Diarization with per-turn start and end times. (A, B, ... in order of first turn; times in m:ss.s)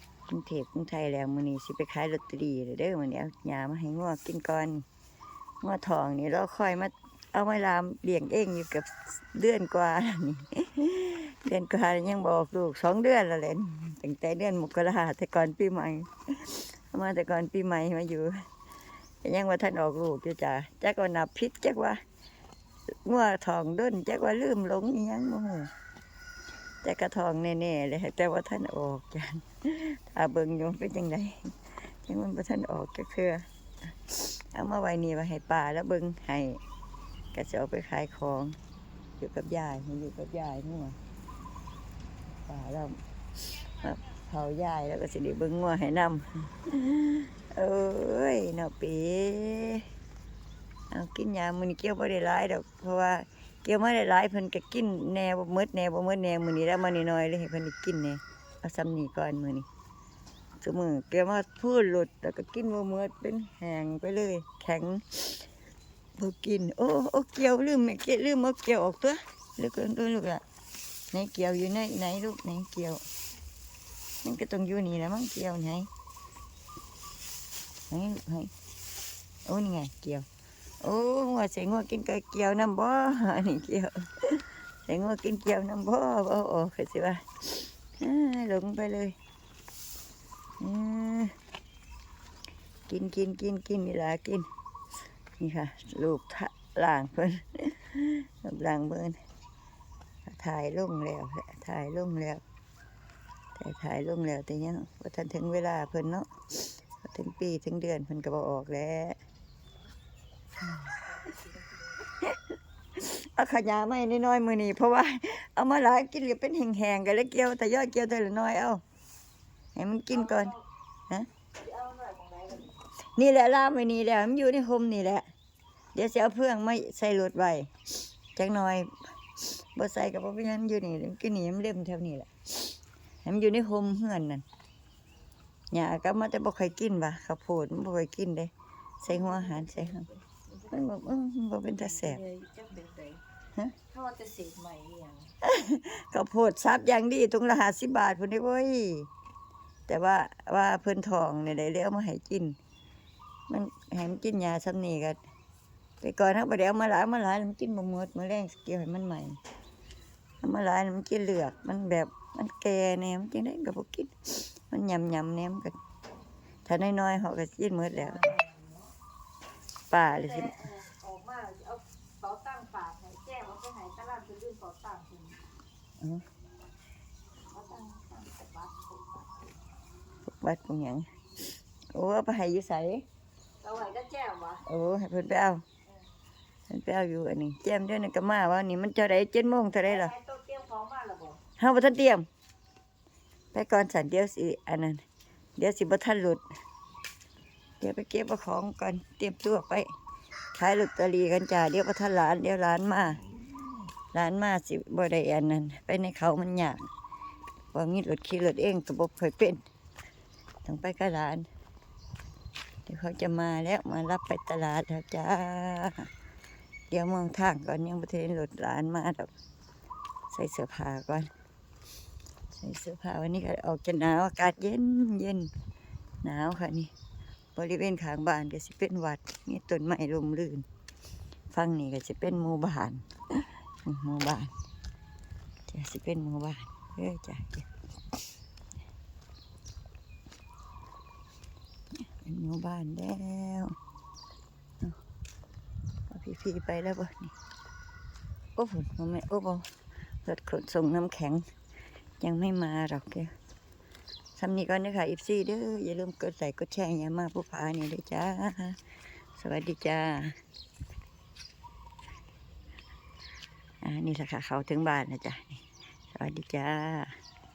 0:00.3-0:04.8 A
0:05.6-0:18.4 A
0:19.2-0:22.0 A
0:23.0-0:25.7 A
0:26.8-0:36.6 A
0:37.3-0:38.6 A
0:39.2-0:41.0 A
0:42.3-0:49.8 A
0:50.9-0:59.6 A
1:00.6-1:05.5 A
1:06.2-1:10.4 A
1:11.1-1:13.0 A
1:14.2-1:15.9 A
1:17.9-1:18.5 A
1:19.4-1:20.2 A
1:20.8-1:29.2 A
1:30.6-1:31.3 A
1:32.9-1:34.5 A
1:35.4-1:39.2 A
1:40.2-1:42.4 A
1:43.6-1:49.2 A
1:52.1-1:52.4 A
1:52.9-1:58.8 A
1:59.7-2:00.5 A
2:00.1-2:00.6 B
2:01.6-2:02.8 B
2:03.1-2:05.2 A
2:05.9-2:07.7 A
2:08.3-2:14.4 A
2:15.7-2:20.1 A
2:19.1-2:20.9 B
2:20.7-2:22.2 A
2:21.8-2:23.2 B
2:23.9-2:25.3 B
2:25.4-2:29.1 A
2:29.9-2:32.6 A
2:33.5-2:35.2 A
2:36.0-2:39.4 A
2:40.4-2:45.8 A
2:46.6-2:48.2 A
2:48.0-2:48.9 B
2:49.9-2:50.6 A
2:50.0-2:55.4 B
2:56.0-2:56.2 A
2:57.5-2:59.5 B
3:00.2-3:01.1 A
3:01.9-3:03.0 A
3:03.6-3:04.6 B
3:04.6-3:05.6 A
3:06.7-3:10.1 A
3:09.8-3:11.4 B
3:11.6-3:12.2 A
3:13.5-3:15.0 A
3:15.6-3:16.4 A
3:17.8-3:19.9 A
3:20.5-3:23.3 A
3:24.1-3:26.9 A
3:27.7-3:29.6 A
3:30.6-3:31.5 A
3:32.9-3:36.1 A
3:36.9-3:39.3 A
3:40.3-3:41.3 A
3:42.5-3:45.5 A
3:46.2-3:46.9 A
3:47.5-3:50.6 A
3:51.5-3:54.5 A
3:55.7-3:57.7 A
4:02.1-4:03.8 A
4:06.1-4:07.3 A
4:08.6-4:09.6 A
4:10.2-4:11.4 A
4:12.2-4:13.3 A
4:14.4-4:18.8 A
4:19.4-4:20.4 A
4:23.8-4:27.1 A